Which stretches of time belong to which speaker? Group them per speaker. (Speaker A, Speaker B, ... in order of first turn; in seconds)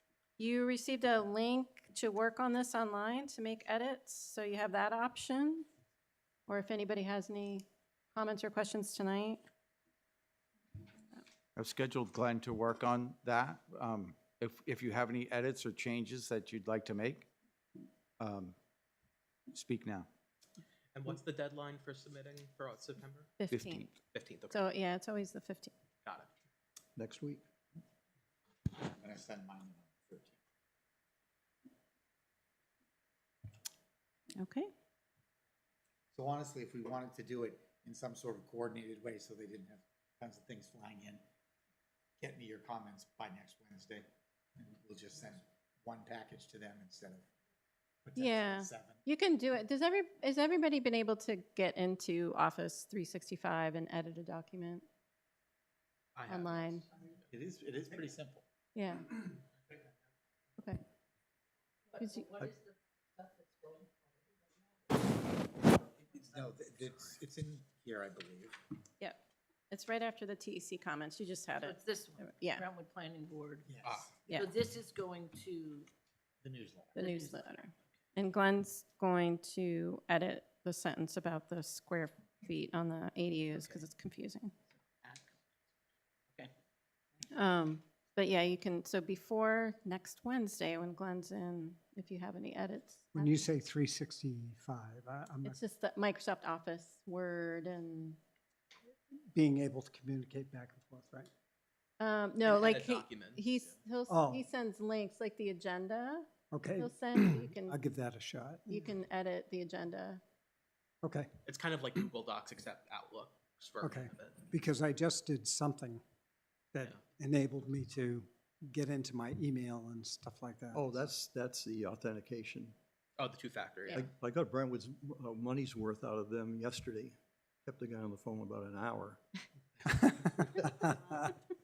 Speaker A: 0.4-5.7, 6.5-9.4, 23.4-23.9, 24.5-25.7, 34.4-34.7, 48.2-54.8, 56.3-56.8, 58.8-59.1, 62.0-62.2, 69.7-72.6, 77.0-84.5, 87.3-93.5, 95.4-98.2, 102.0-107.8, 108.7-110.2
Speaker B: 11.6-17.3, 18.2-18.6, 19.5-20.1, 23.5-23.9
Speaker C: 20.9-23.3, 24.1-24.6, 56.1-56.7, 73.8-74.1, 102.4-103.8, 111.5-114.5, 123.2-124.1
Speaker D: 26.9-27.4, 120.7-122.8, 123.9-129.2
Speaker E: 28.8-30.4, 36.1-41.2, 42.2-44.1, 44.6-47.3, 48.0-49.0, 57.3-58.4, 65.8-68.6, 73.7-74.5, 76.4-77.0
Speaker F: 61.9-65.1, 71.6-73.7, 74.3-75.9, 76.9-77.4, 130.6-131.2
Speaker G: 93.2-95.6, 99.3-101.3, 104.1-104.5, 106.5-108.8, 111.0-111.3, 113.8-116.0, 116.7-121.0